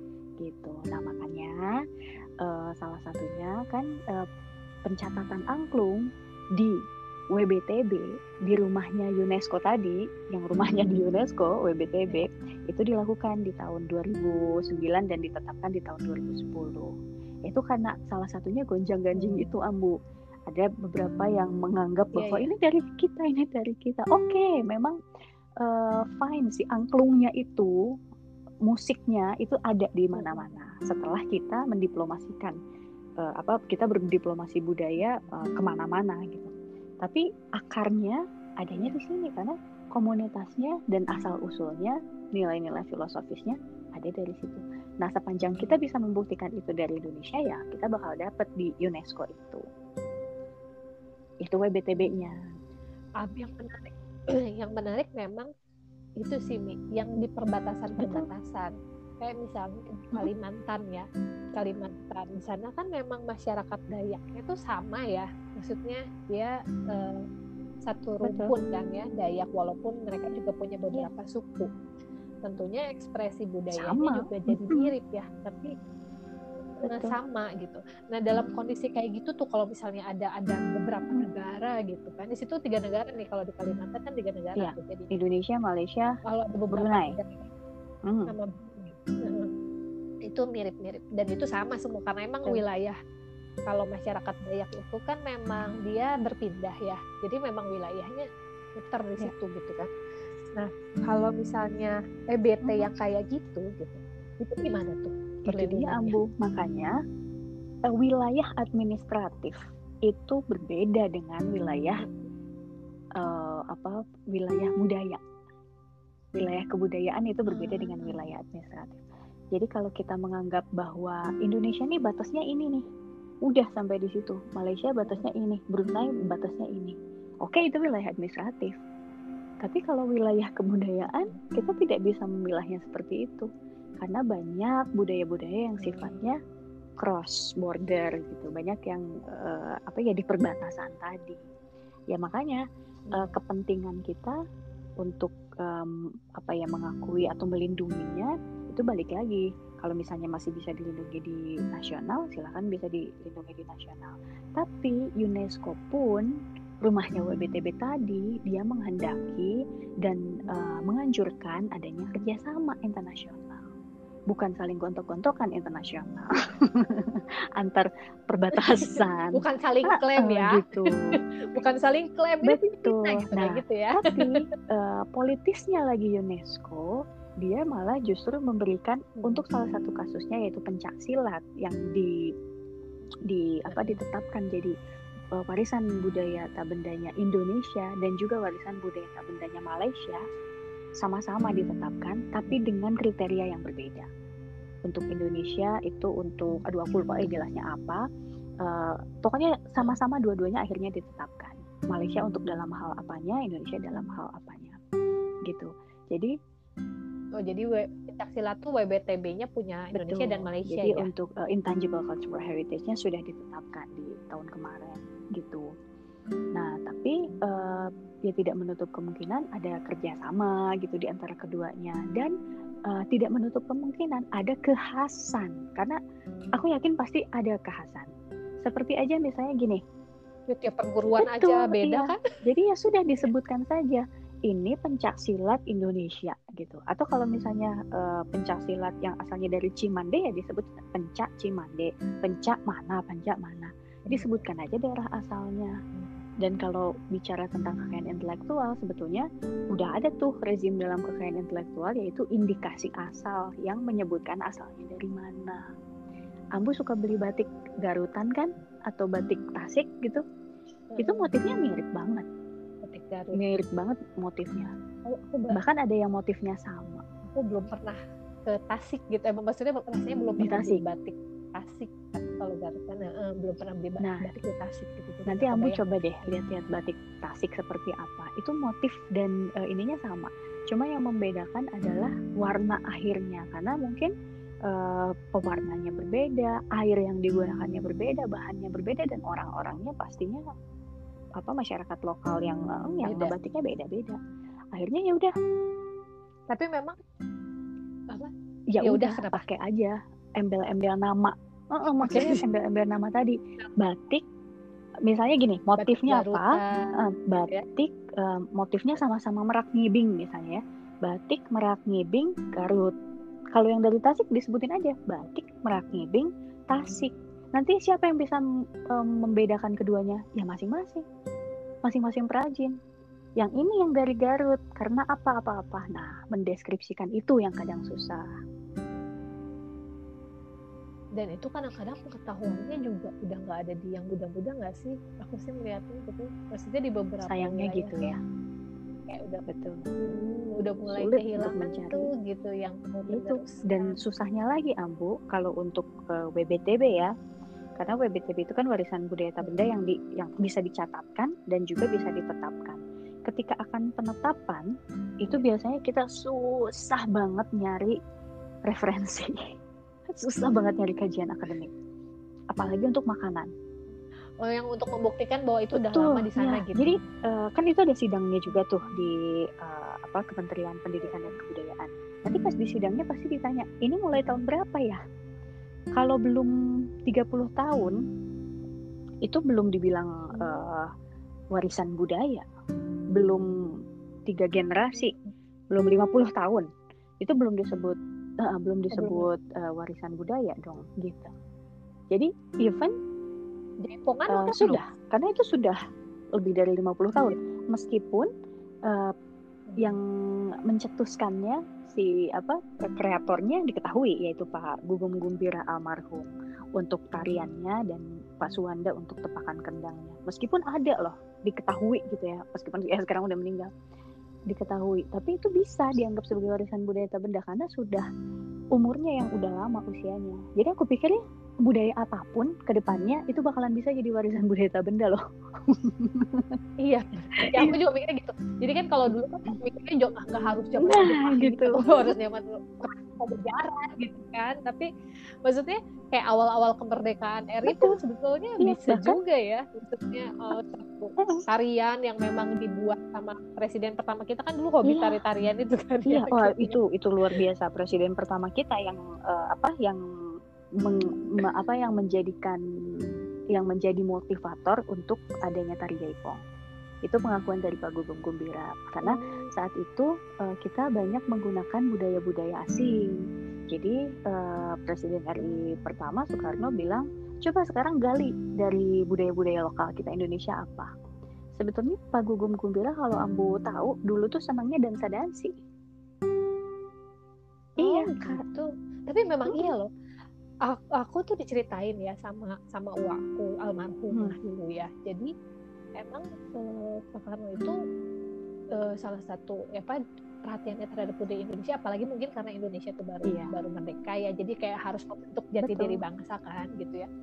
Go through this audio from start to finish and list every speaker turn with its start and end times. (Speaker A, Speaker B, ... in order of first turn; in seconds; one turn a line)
Speaker A: 0.4-1.7
Speaker A: 2.4-4.2
Speaker A: 4.9-6.7
Speaker A: 7.3-16.9
Speaker A: 17.5-19.9
Speaker B: 19.1-19.6
Speaker A: 20.5-24.9
Speaker B: 22.1-22.5
Speaker A: 25.6-27.7
Speaker A: 28.7-32.5
Speaker B: 30.1-30.6
Speaker A: 33.2-49.6
Speaker A: 51.4-52.4
Speaker B: 52.0-52.3
Speaker B: 53.2-55.5
Speaker B: 56.2-67.3
Speaker A: 58.0-58.3
Speaker B: 67.8-71.7
Speaker A: 68.2-68.5
Speaker B: 72.4-75.7
Speaker A: 73.7-74.9
Speaker A: 76.8-77.1
Speaker B: 76.8-85.1
Speaker A: 84.6-86.1
Speaker B: 86.2-87.5
Speaker A: 86.7-87.2
Speaker A: 88.1-88.3
Speaker B: 88.3-89.5
Speaker B: 90.2-93.0
Speaker B: 93.7-98.2
Speaker B: 98.8-99.9
Speaker B: 100.5-106.2
Speaker A: 102.6-102.9
Speaker A: 105.5-106.9
Speaker A: 107.9-109.5
Speaker A: 110.1-112.0
Speaker B: 112.0-112.3
Speaker A: 113.2-115.2
Speaker A: 116.3-119.0
Speaker B: 117.5-118.3
Speaker A: 119.5-122.8
Speaker A: 123.5-128.7
Speaker A: 129.6-133.5
Speaker B: 131.1-131.4
Speaker A: 134.0-136.4
Speaker B: 135.8-136.2
Speaker A: 137.0-141.4
Speaker A: 142.1-142.6
Speaker B: 143.1-143.4
Speaker A: 143.1-144.3
Speaker A: 145.0-156.3
Speaker A: 156.8-159.5
Speaker A: 160.0-163.7
Speaker A: 164.3-171.1
Speaker B: 168.5-174.4
Speaker A: 172.4-182.3
Speaker B: 179.2-179.4
Speaker A: 183.3-184.7
Speaker B: 183.7-184.0
Speaker A: 185.3-190.2
Speaker A: 191.0-194.1
Speaker A: 194.8-198.0
Speaker A: 198.6-204.8
Speaker A: 205.4-206.3
Speaker B: 207.4-211.1
Speaker A: 209.9-215.7
Speaker A: 216.5-222.3
Speaker B: 217.3-218.1
Speaker A: 222.9-226.0
Speaker A: 226.5-228.1
Speaker A: 228.6-229.8
Speaker B: 230.5-232.2
Speaker A: 231.1-245.7
Speaker B: 245.9-246.2
Speaker A: 246.4-255.6
Speaker A: 256.5-260.2
Speaker B: 260.9-261.3
Speaker A: 261.0-262.2
Speaker B: 262.8-263.4
Speaker A: 263.3-264.7
Speaker B: 265.1-265.6
Speaker A: 265.5-267.0
Speaker B: 267.2-276.3
Speaker A: 270.4-270.8
Speaker A: 274.0-274.3
Speaker A: 275.3-284.1
Speaker A: 284.7-290.4
Speaker A: 291.4-294.2
Speaker B: 293.0-293.3
Speaker A: 294.7-295.3
Speaker B: 296.5-297.0
Speaker A: 298.7-304.2
Speaker B: 298.8-299.4
Speaker B: 302.0-302.4
Speaker A: 305.0-312.9
Speaker B: 305.7-307.6
Speaker A: 313.5-321.0
Speaker A: 321.8-322.7
Speaker A: 323.4-328.2
Speaker B: 331.2-338.1
Speaker A: 337.3-338.2
Speaker B: 339.1-339.4
Speaker A: 339.5-339.8
Speaker B: 340.0-344.0
Speaker A: 340.9-342.1
Speaker A: 343.1-347.1
Speaker A: 347.8-354.7
Speaker A: 355.2-357.9
Speaker A: 358.7-359.4
Speaker A: 360.1-361.7
Speaker A: 362.5-363.5
Speaker B: 364.4-366.9
Speaker A: 365.7-375.0
Speaker B: 371.0-371.4
Speaker B: 374.1-374.4
Speaker A: 375.9-376.5
Speaker A: 377.1-377.9
Speaker A: 379.2-380.9
Speaker B: 380.3-380.6
Speaker A: 381.5-382.4
Speaker A: 383.1-383.5
Speaker A: 384.3-385.1
Speaker B: 384.9-385.3
Speaker A: 385.7-386.6
Speaker A: 387.2-391.3
Speaker B: 388.9-389.2
Speaker A: 392.1-392.9
Speaker B: 393.8-394.8
Speaker A: 394.3-395.8
Speaker A: 396.4-398.3
Speaker A: 398.9-399.1
Speaker B: 399.7-400.0
Speaker A: 400.7-413.7
Speaker B: 407.1-407.5
Speaker A: 414.5-418.0
Speaker A: 418.7-426.6
Speaker B: 426.8-434.9
Speaker A: 427.4-427.7
Speaker A: 430.8-432.1
Speaker B: 435.4-446.8
Speaker A: 437.6-437.9
Speaker A: 438.6-439.2
Speaker A: 444.8-445.2
Speaker A: 446.1-450.0
Speaker A: 450.8-452.6
Speaker A: 453.5-456.4
Speaker A: 457.0-463.2
Speaker B: 459.0-459.5
Speaker A: 463.7-470.9
Speaker B: 465.4-465.8
Speaker A: 471.6-475.5
Speaker B: 477.8-479.9
Speaker A: 477.8-478.4
Speaker A: 479.5-479.7
Speaker B: 480.6-485.3
Speaker B: 486.0-487.8
Speaker B: 488.7-497.1
Speaker A: 493.2-493.5
Speaker A: 495.6-496.0